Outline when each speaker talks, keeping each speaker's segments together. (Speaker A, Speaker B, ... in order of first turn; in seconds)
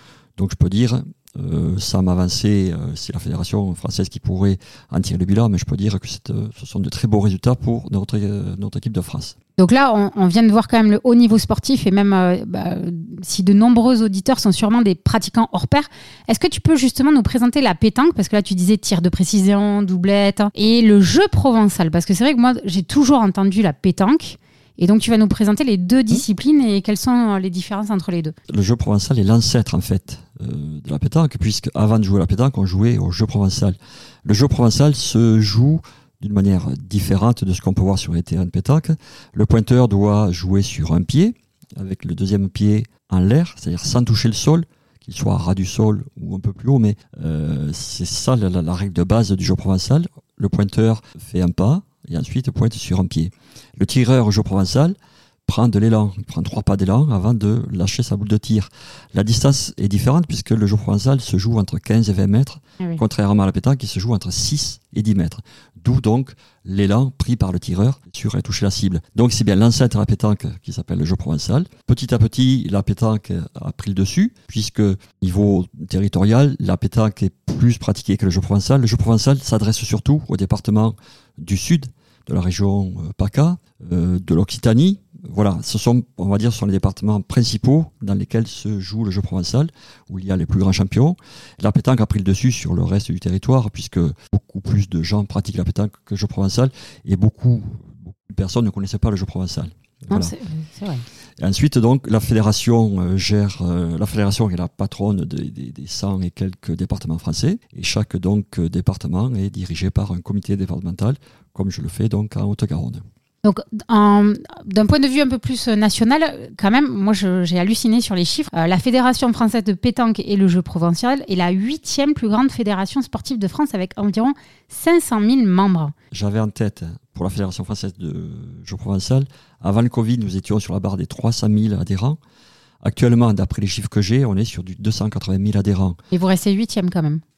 Speaker A: 0.4-9.3, 28.5-55.0, 55.5-100.3, 101.4-113.0, 126.1-132.2, 132.8-136.0
Speaker B: 9.6-28.3, 100.1-101.0, 113.4-125.9, 136.1-137.2